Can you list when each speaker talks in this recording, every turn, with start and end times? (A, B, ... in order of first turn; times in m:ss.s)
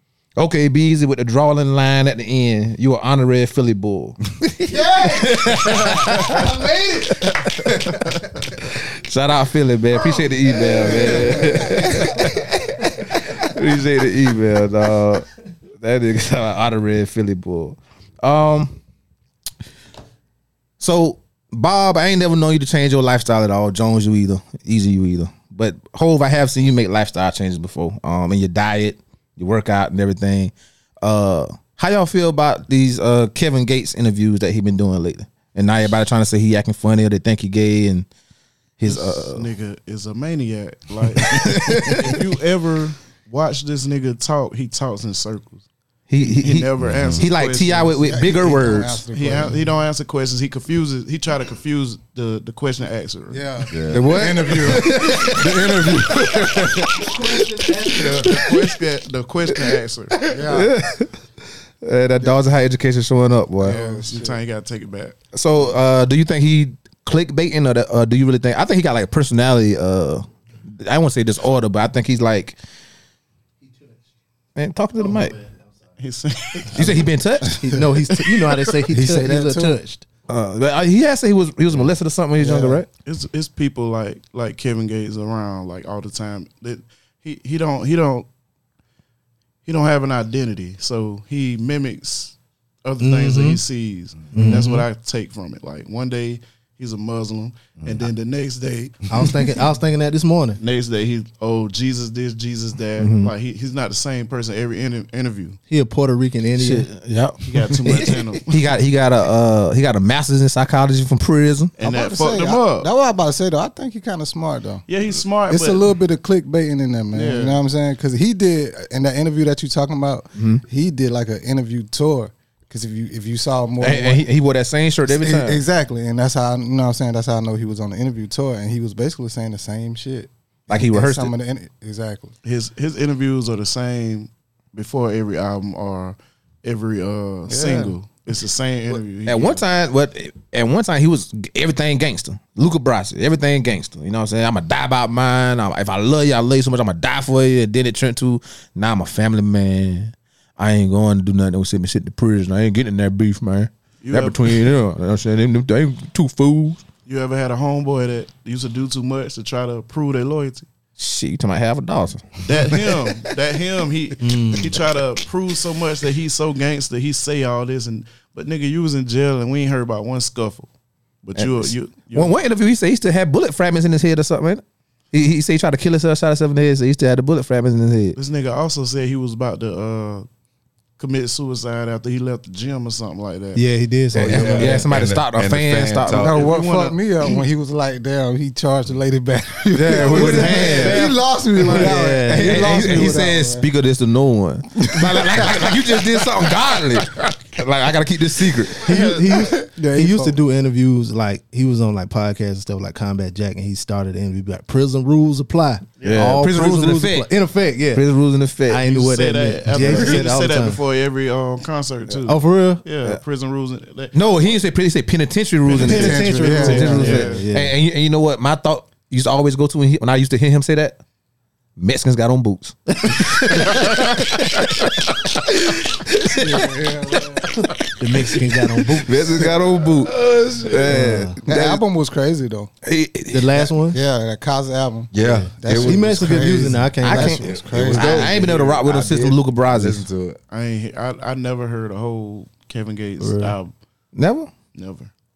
0:00.4-0:06.6 A
0:04.7-0:07.3 B
0:07.1-0:15.3 A
0:10.6-0:12.1 B
0:15.8-0:18.8 A
0:20.8-0:38.1 A
0:38.8-0:39.4 A
0:38.8-0:45.6 C
0:41.2-0:42.2 A
0:46.1-0:49.0 A
0:46.2-0:48.2 C
0:46.8-0:47.2 D
0:48.1-0:49.7 B
0:49.0-0:53.4 C
0:53.3-0:57.1 B
0:53.7-0:54.5 D
0:53.9-0:57.2 A
0:57.0-0:58.2 E
0:57.9-1:00.3 C
0:58.0-0:58.5 A
1:00.3-1:00.7 B
1:00.5-1:01.1 A
1:01.8-1:04.0 A
1:03.6-1:04.4 B
1:04.1-1:05.2 C
1:05.3-1:10.2 A
1:10.8-1:12.6 A
1:14.6-1:15.4 A
1:16.0-1:17.0 C
1:16.7-1:17.6 A
1:17.4-1:20.0 E
1:18.1-1:18.7 C
1:18.9-1:19.8 B
1:20.3-1:22.9 A
1:22.4-1:22.8 B
1:23.0-1:28.3 C
1:29.6-1:39.3 C
1:33.0-1:33.6 E
1:34.3-1:34.8 E
1:39.1-1:40.6 E
1:40.6-1:45.6 C
1:43.0-1:43.3 A
1:45.7-1:46.9 E
1:46.6-1:51.7 A
1:47.4-1:48.6 C
1:51.8-1:52.9 C
1:51.8-1:54.8 B
1:54.9-1:55.9 C
1:55.5-2:04.2 B
1:57.1-1:57.6 C
2:00.4-2:00.6 A
2:03.8-2:05.6 A
2:05.1-2:12.3 B
2:10.7-2:11.3 A
2:12.4-2:19.6 C
2:17.5-2:17.9 B
2:19.2-2:36.8 A
2:34.0-2:34.7 C
2:37.0-2:40.7 C
2:41.0-2:42.4 A
2:42.4-2:50.7 C
2:44.2-2:44.8 E
2:51.2-2:52.4 C
2:51.4-2:58.2 A
2:58.1-3:00.2 C
3:01.0-3:03.6 C
3:03.6-3:04.9 E
3:04.1-3:06.3 A
3:04.2-3:06.4 D
3:06.2-3:13.7 B
3:06.3-3:07.3 C
3:09.7-3:19.0 A
3:10.2-3:11.0 E
3:11.6-3:13.1 E
3:15.0-3:15.7 B
3:18.8-3:28.0 E
3:18.9-3:19.5 C
3:19.5-3:20.4 B
3:26.0-3:26.3 C
3:26.0-3:27.3 A
3:27.9-3:28.9 A
3:28.7-3:30.8 E
3:28.8-3:34.5 C
3:29.7-3:30.0 A
3:32.3-3:32.8 E
3:34.1-3:41.0 A
3:35.8-3:37.2 B
3:35.8-3:37.4 C
3:35.8-3:37.7 E
3:41.8-3:44.7 A
3:43.0-3:43.6 E
3:45.5-3:46.7 A
3:46.2-3:47.6 B
3:48.0-3:49.1 E
3:48.9-3:51.8 A
3:49.9-3:51.0 D
3:50.9-3:51.4 E
3:51.4-3:52.7 B
3:52.8-3:53.7 A
3:53.3-3:54.0 E
3:53.9-3:58.4 B
3:55.1-3:56.8 D
3:55.2-3:57.4 E
3:57.0-4:00.0 A
3:57.4-4:00.4 D
4:00.5-4:03.7 C
4:03.2-4:03.6 E
4:04.2-4:04.5 A
4:04.7-4:05.1 C